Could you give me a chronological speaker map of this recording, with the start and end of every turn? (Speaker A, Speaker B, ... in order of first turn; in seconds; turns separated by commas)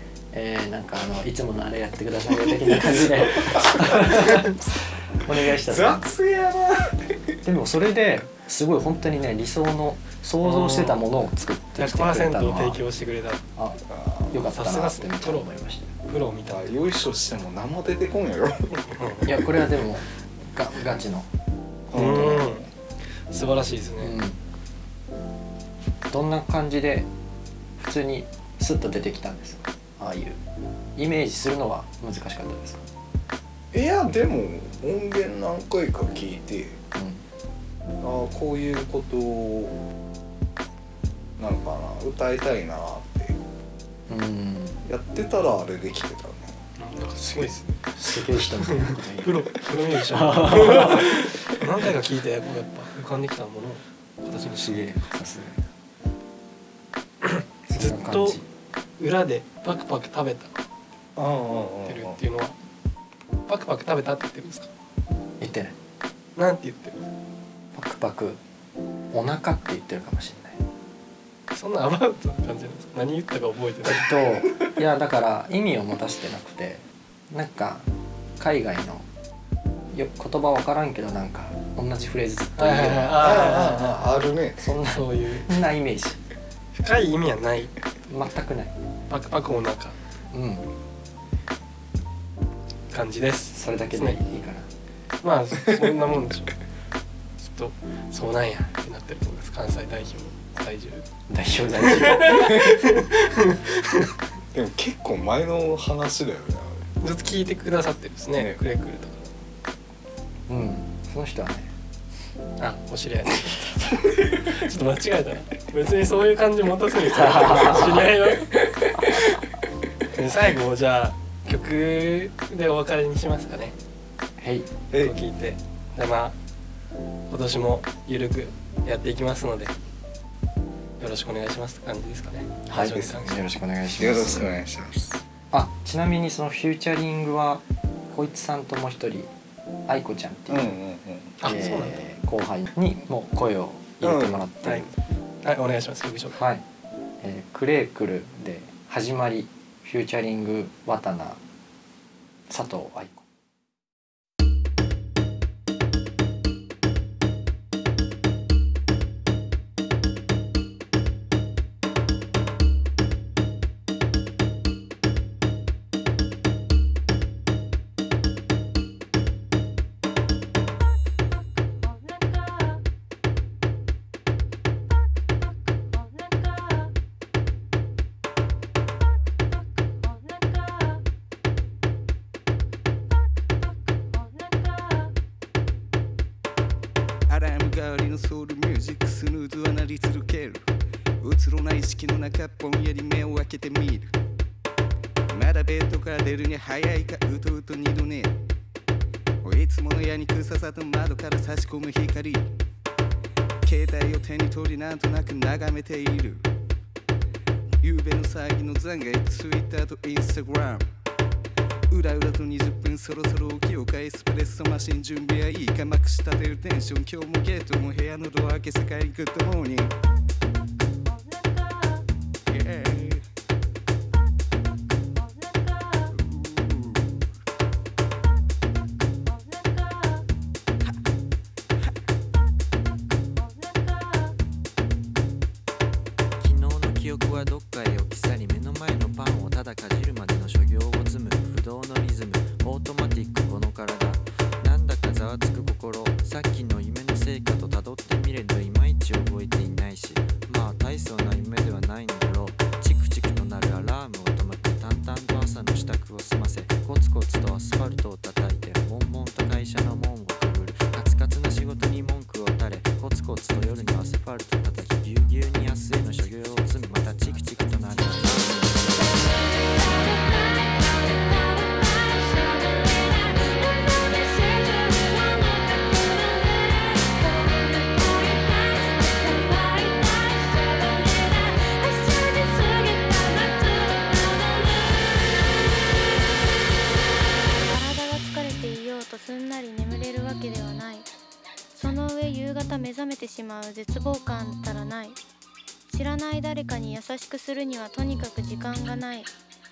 Speaker A: 0.3-6.1, Speaker B: 2.5-4.6, Speaker B: 5.3-7.4, Speaker A: 7.5-12.8, Speaker C: 10.4-11.1, Speaker C: 11.8-13.4, Speaker A: 13.6-15.9, Speaker B: 13.9-14.3, Speaker C: 14.5-15.5, Speaker C: 16.1-16.8, Speaker B: 16.5-19.3, Speaker C: 18.9-19.3, Speaker A: 19.2-21.3, Speaker B: 21.9-22.7, Speaker C: 21.9-22.7, Speaker C: 23.3-24.2, Speaker A: 24.0-24.4, Speaker A: 26.1-27.1, Speaker A: 27.8-30.4, Speaker A: 31.0-32.9, Speaker B: 33.7-36.8, Speaker A: 37.0-37.2, Speaker B: 38.0-39.8, Speaker B: 41.4-43.4, Speaker A: 44.1-44.8, Speaker B: 44.9-46.5, Speaker C: 46.8-47.8, Speaker B: 47.3-47.6, Speaker A: 48.0-49.5, Speaker C: 48.4-54.9, Speaker A: 50.1-51.3, Speaker A: 54.5-55.6, Speaker C: 57.2-58.4, Speaker A: 57.7-58.5, Speaker C: 59.0-60.5, Speaker B: 61.2-62.1, Speaker C: 61.9-62.6, Speaker C: 63.5-64.7, Speaker A: 65.4-65.8, Speaker C: 66.4-67.0, Speaker A: 67.7-68.4, Speaker A: 69.1-70.6, Speaker C: 71.5-74.2, Speaker A: 73.8-79.1, Speaker A: 79.9-83.3, Speaker C: 82.6-84.1, Speaker B: 83.2-84.7, Speaker A: 84.6-86.2, Speaker C: 84.8-85.5, Speaker C: 86.8-87.8, Speaker A: 88.1-88.8, Speaker C: 89.1-90.0, Speaker A: 90.3-90.7, Speaker C: 92.9-94.2, Speaker A: 93.5-94.7, Speaker C: 95.2-96.5, Speaker C: 97.4-101.0, Speaker A: 101.3-102.7, Speaker C: 101.7-104.1, Speaker B: 104.5-106.9, Speaker C: 107.0-109.3, Speaker A: 110.5-111.7, Speaker C: 112.6-119.4, Speaker A: 117.1-118.1, Speaker C: 120.1-123.8, Speaker A: 124.4-124.7, Speaker C: 124.9-126.4, Speaker C: 127.3-129.8, Speaker C: 131.0-133.4, Speaker A: 132.7-134.5, Speaker B: 132.8-133.2, Speaker B: 134.0-135.2, Speaker A: 135.5-139.3, Speaker A: 139.9-140.8, Speaker B: 140.5-141.4, Speaker C: 141.4-142.0, Speaker A: 141.4-144.9, Speaker B: 144.0-144.9, Speaker C: 145.4-146.4, Speaker A: 146.3-146.7, Speaker A: 147.2-151.4, Speaker A: 152.5-153.2, Speaker D: 187.3-190.6, Speaker D: 191.2-194.0, Speaker D: 195.3-198.3, Speaker D: 199.4-202.5, Speaker D: 203.6-206.4, Speaker D: 207.8-210.9, Speaker D: 211.9-219.9, Speaker D: 222.5-223.2, Speaker D: 226.1-227.1, Speaker E: 236.4-269.1, Speaker A: 255.4-255.9, Speaker A: 263.6-264.1, Speaker A: 265.6-269.1, Speaker E: 269.9-275.2, Speaker F: 277.3-285.3, Speaker F: 287.6-291.1, Speaker F: 291.7-295.2, Speaker F: 295.9-299.3